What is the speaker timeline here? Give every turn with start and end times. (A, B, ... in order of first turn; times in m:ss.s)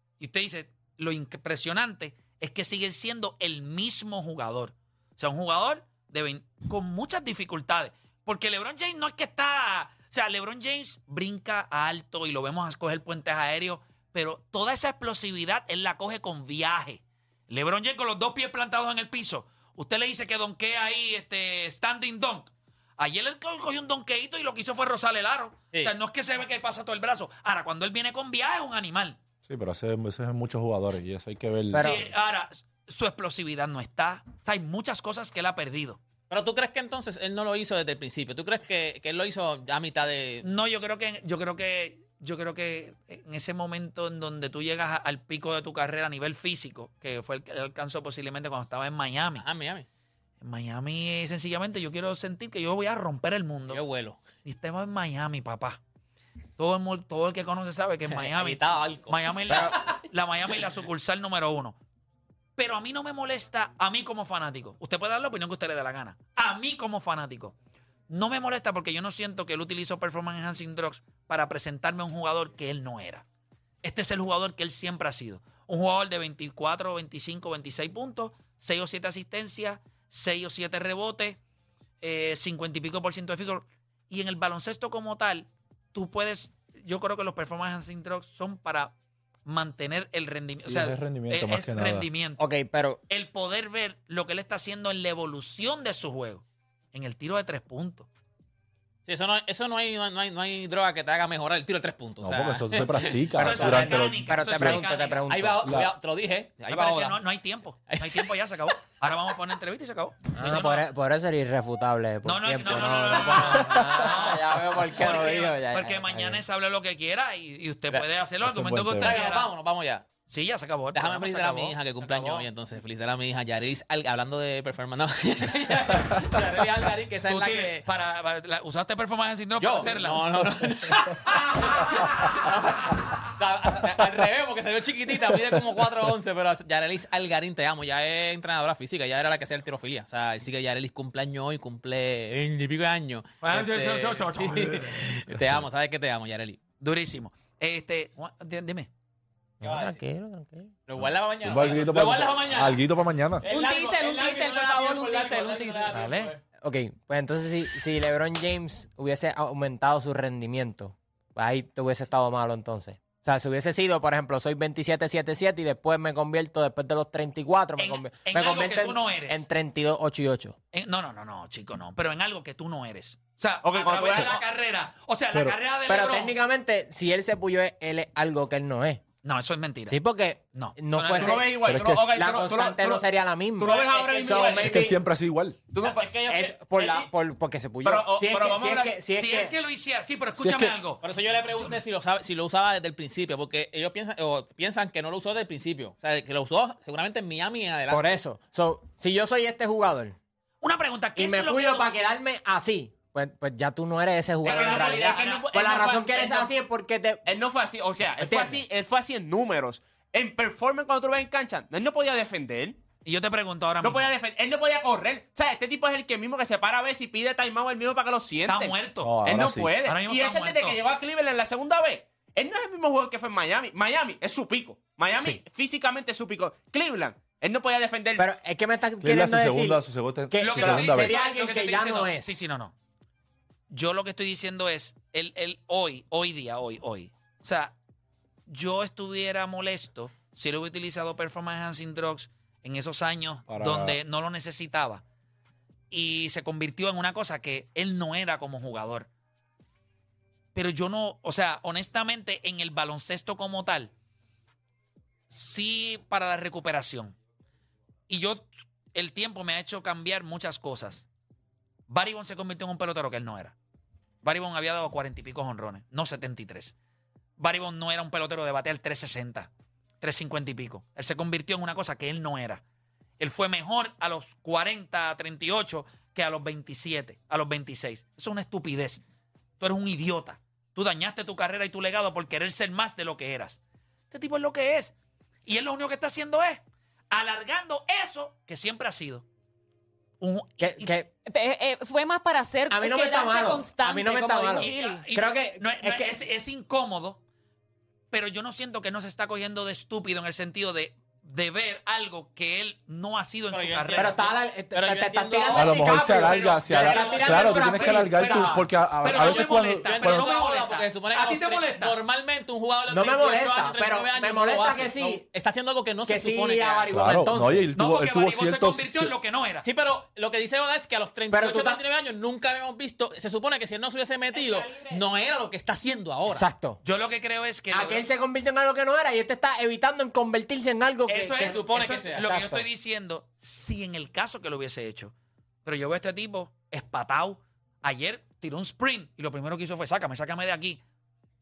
0:00.2-0:29.2 A
0:29.4-0:32.0 B
0:31.7-0:32.1 C
0:31.8-0:36.0 A
0:36.3-0:40.4 D
0:40.4-0:49.4 A
0:49.4-0:49.8 D
0:50.4-0:53.8 A
0:53.7-0:54.2 D
0:54.4-0:55.8 A
0:56.6-1:01.8 A
0:58.1-0:59.7 D
1:02.6-1:07.5 A
1:08.1-1:13.2 A
1:13.8-1:21.4 A
1:22.0-1:28.9 A
1:29.4-1:32.4 A
1:30.6-1:32.1 B
1:32.4-1:33.0 C
1:33.1-1:38.1 A
1:39.0-1:43.2 D
1:42.2-1:44.8 B
1:43.4-1:45.8 C
1:43.4-1:45.2 A
1:45.3-1:47.2 D
1:46.7-1:50.8 A
1:47.9-1:48.3 D
1:50.4-1:56.4 C
1:52.2-1:59.5 A
1:58.4-1:59.2 B
1:59.0-2:00.1 D
2:00.3-2:02.4 A
2:00.9-2:07.8 D
2:07.3-2:10.4 A
2:09.6-2:26.6 D
2:11.3-2:12.3 A
2:23.4-2:25.2 A
2:25.3-2:25.6 B
2:26.8-2:28.9 A
2:29.6-2:30.7 C
2:29.6-2:30.0 D
2:30.9-2:32.8 D
2:31.4-2:33.5 B
2:33.4-2:36.4 D
2:33.4-2:35.9 E
2:35.9-2:36.3 A
2:36.6-2:50.6 C
2:47.8-2:49.4 A
2:50.7-2:56.3 A
2:53.6-2:54.4 F
2:55.8-2:59.0 C
2:59.2-3:00.0 A
2:59.9-3:05.0 C
3:00.5-3:01.4 A
3:01.2-3:03.0 F
3:01.6-3:02.1 B
3:03.6-3:04.9 F
3:03.7-3:04.8 D
3:04.6-3:05.6 B
3:05.7-3:06.1 F
3:05.8-3:07.1 D
3:06.3-3:09.5 C
3:07.8-3:09.0 F
3:09.1-3:11.8 A
3:10.4-3:10.8 C
3:11.0-3:18.1 D
3:17.9-3:20.2 C
3:20.6-3:21.9 A
3:21.2-3:27.3 C
3:24.4-3:25.5 A
3:24.4-3:26.5 F
3:27.2-3:32.8 F
3:28.2-3:28.6 C
3:33.0-3:34.1 A
3:33.8-3:48.2 F
3:38.5-3:39.3 A
3:39.0-3:39.8 B
3:39.8-3:40.8 A
3:48.2-3:52.4 C
3:49.0-3:51.2 B
3:50.4-3:52.7 A
3:53.7-3:57.8 A
3:58.5-4:05.0 A
4:03.5-4:04.0 B
4:05.9-4:09.1 A
4:10.5-4:13.9 A
4:15.3-4:17.2 A
4:18.1-4:21.1 A
4:21.9-4:23.5 A
4:24.2-4:26.7 A
4:27.4-4:29.5 A
4:30.0-4:32.6 A
4:33.2-4:39.0 A
4:39.6-4:43.6 A
4:44.1-4:44.9 A
4:45.4-4:49.2 A
4:50.2-4:50.9 A
4:50.6-4:51.1 C
4:51.2-4:55.1 E
4:52.7-4:56.2 C
4:54.6-4:57.2 A
4:58.1-5:04.2 A
5:03.5-5:05.9 D
5:03.9-5:08.7 C
5:05.5-5:10.3 B
5:06.2-5:12.0 A
5:06.9-5:07.6 D
5:09.2-5:16.9 D
5:12.9-5:15.2 C
5:16.0-5:17.7 C
5:16.9-5:19.1 B
5:17.7-5:19.6 A
5:19.6-5:26.5 D
5:21.3-5:21.8 C
5:26.3-5:26.8 C
5:26.8-5:28.0 A
5:27.7-5:31.6 C
5:31.1-5:35.1 A
5:31.4-5:32.2 D
5:32.1-5:32.6 C
5:35.6-5:40.8 A